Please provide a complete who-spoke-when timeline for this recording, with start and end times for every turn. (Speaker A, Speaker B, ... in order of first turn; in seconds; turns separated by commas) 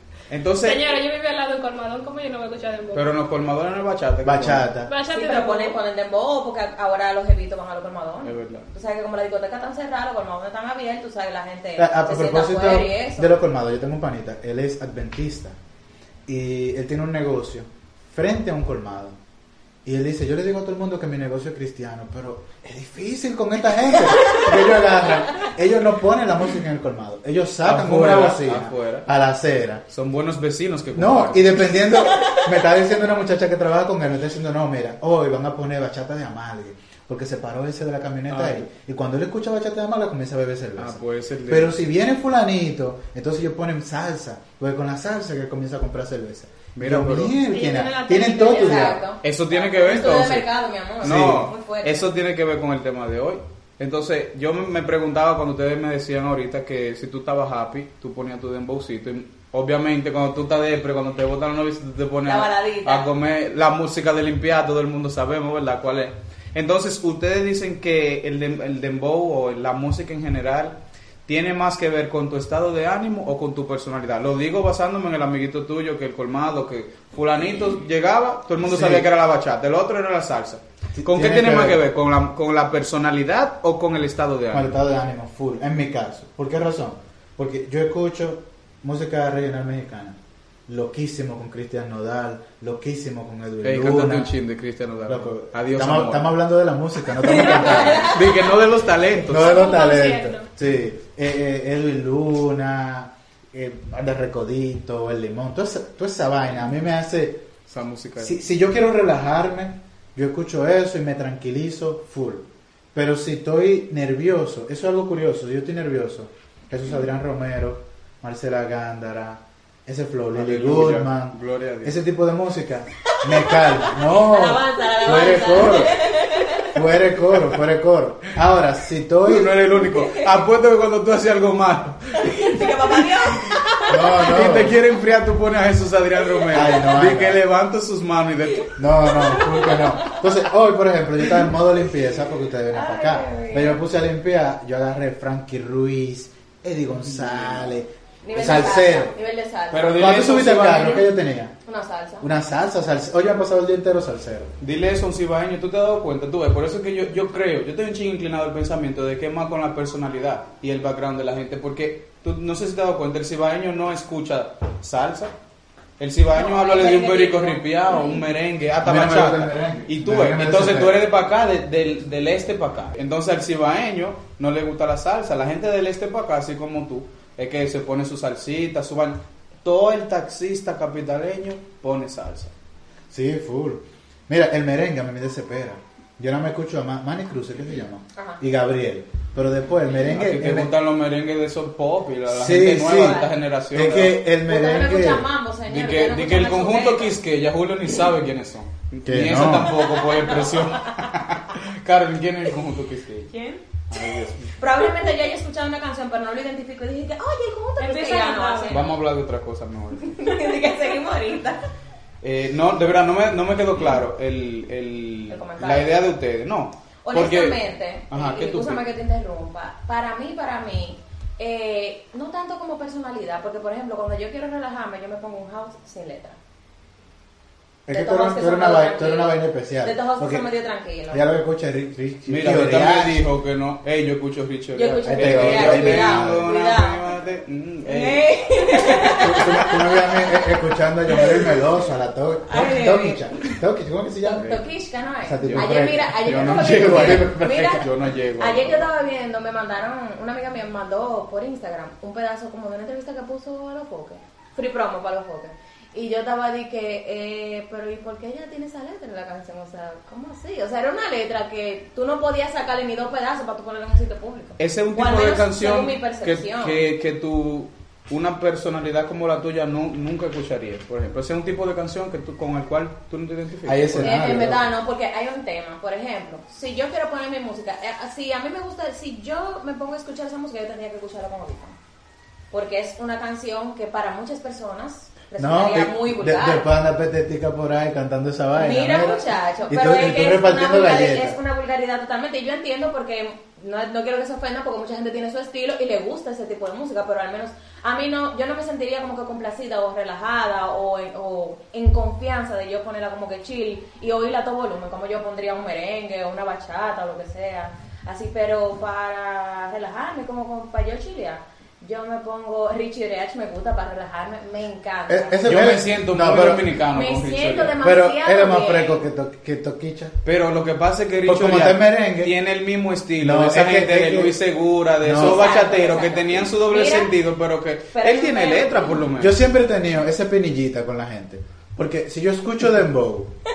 Speaker A: 0.3-0.9, Speaker B: 0.6-3.1, Speaker A: 2.9-4.7, Speaker C: 4.2-4.9, Speaker B: 4.9-5.8, Speaker D: 5.1-13.4, Speaker A: 8.2-8.7, Speaker C: 11.8-15.6, Speaker C: 16.3-19.2, Speaker C: 19.8-29.8, Speaker A: 27.6-29.1, Speaker A: 29.9-31.7, Speaker C: 30.9-49.0, Speaker A: 38.3-38.6, Speaker A: 40.8-41.7, Speaker A: 46.8-47.4, Speaker B: 47.4-49.0, Speaker D: 48.4-52.0, Speaker A: 49.2-84.8, Speaker C: 51.0-51.5, Speaker D: 62.2-63.1, Speaker C: 78.6-79.0, Speaker C: 81.0-81.8, Speaker C: 84.5-90.2, Speaker C: 90.7-94.3, Speaker A: 93.6-96.3, Speaker C: 95.1-98.1, Speaker D: 97.2-98.5, Speaker A: 97.5-99.7, Speaker C: 99.3-107.4, Speaker B: 99.3-100.5, Speaker A: 107.7-108.4, Speaker C: 108.2-126.1, Speaker A: 120.3-122.0, Speaker D: 123.2-126.8, Speaker C: 126.7-129.6, Speaker A: 129.2-133.6, Speaker D: 129.9-130.3, Speaker D: 132.2-134.0, Speaker C: 133.9-134.8, Speaker A: 134.2-138.8, Speaker C: 136.5-137.4, Speaker C: 138.8-149.1, Speaker D: 139.2-140.2, Speaker D: 142.7-143.8, Speaker A: 147.1-147.7, Speaker D: 148.2-151.1, Speaker A: 149.7-151.1, Speaker C: 149.9-151.5, Speaker D: 151.6-152.3, Speaker C: 152.2-154.5, Speaker A: 154.6-165.3, Speaker A: 166.0-182.5, Speaker D: 166.3-168.2, Speaker C: 168.8-171.0, Speaker C: 183.1-190.7, Speaker A: 190.0-194.2, Speaker C: 192.3-193.2, Speaker D: 192.8-193.3, Speaker C: 193.7-195.2, Speaker D: 194.4-197.1, Speaker A: 195.7-203.3, Speaker C: 199.0-199.8, Speaker D: 199.8-200.7, Speaker B: 203.3-203.6, Speaker A: 203.9-204.6, Speaker D: 204.6-209.0, Speaker B: 207.8-208.8, Speaker A: 208.7-210.3, Speaker D: 210.0-211.6, Speaker A: 212.2-218.8, Speaker D: 215.3-216.1, Speaker D: 217.0-226.4, Speaker C: 227.9-230.4, Speaker D: 227.9-231.2, Speaker C: 231.1-233.2, Speaker A: 232.3-239.4, Speaker D: 234.7-237.1, Speaker C: 235.1-236.5, Speaker D: 237.8-240.3, Speaker C: 239.2-244.5, Speaker D: 242.5-243.5, Speaker D: 244.2-266.8, Speaker A: 244.4-244.7, Speaker C: 245.2-247.4, Speaker A: 245.4-248.9, Speaker A: 264.6-274.4, Speaker C: 273.6-274.6, Speaker D: 274.0-281.8, Speaker D: 282.5-286.7, Speaker C: 285.4-291.4, Speaker D: 288.6-315.6, Speaker C: 315.1-316.7, Speaker A: 315.4-317.7, Speaker D: 316.9-319.0, Speaker C: 317.8-320.1, Speaker A: 320.2-329.4, Speaker C: 321.2-322.3, Speaker C: 323.2-324.4, Speaker C: 325.0-325.4, Speaker D: 325.1-327.1, Speaker D: 327.9-329.0, Speaker C: 329.2-333.3